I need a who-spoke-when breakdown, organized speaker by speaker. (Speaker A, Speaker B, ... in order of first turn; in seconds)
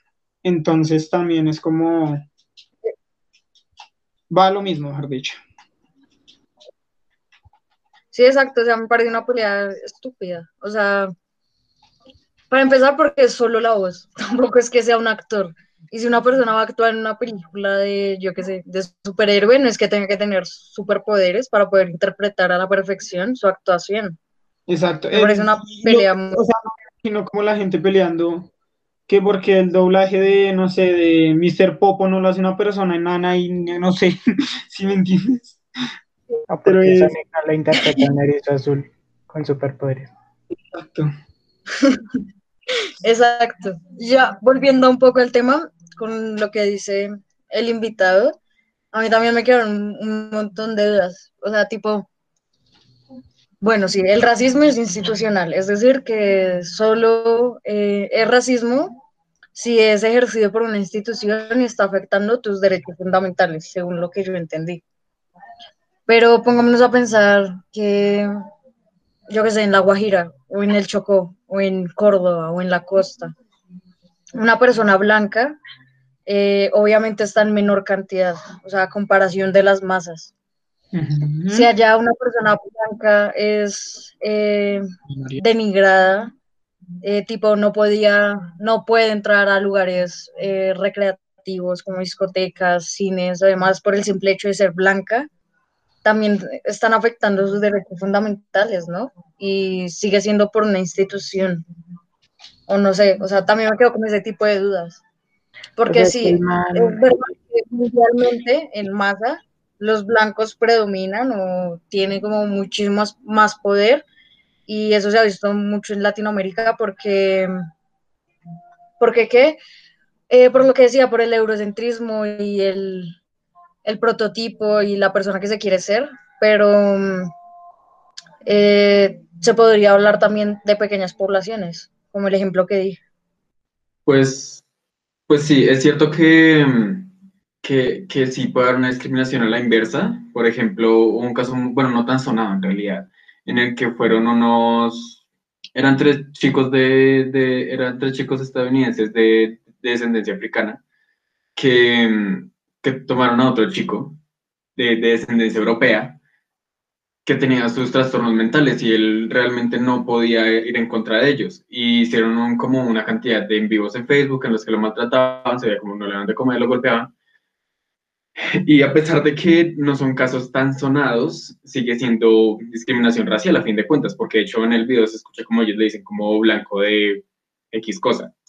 Speaker A: 0.4-2.2, 4.3-5.4, 24.7-28.5, 29.1-35.6, 36.6-37.1, 40.7-41.1, 80.9-81.7, 85.1-85.4
Speaker B: 8.1-11.1, 12.5-24.2, 25.1-26.4, 43.0-48.3, 48.9-52.1, 53.6-59.0, 59.5-64.8, 66.1-68.3, 69.3-73.3, 74.3-75.6, 76.2-80.3, 81.5-84.9, 85.4-86.3, 87.0-95.3, 96.0-101.6, 102.7-105.0, 105.8-114.0, 114.7-117.5, 119.0-119.6, 120.3-123.2, 123.8-127.3, 128.4-133.0
Speaker C: 36.5-40.1, 105.9-107.0
Speaker D: 134.1-134.6, 135.3-137.1, 137.6-145.2, 145.7-150.8, 151.6-154.2, 154.8-156.2, 157.2-167.1, 168.4-178.3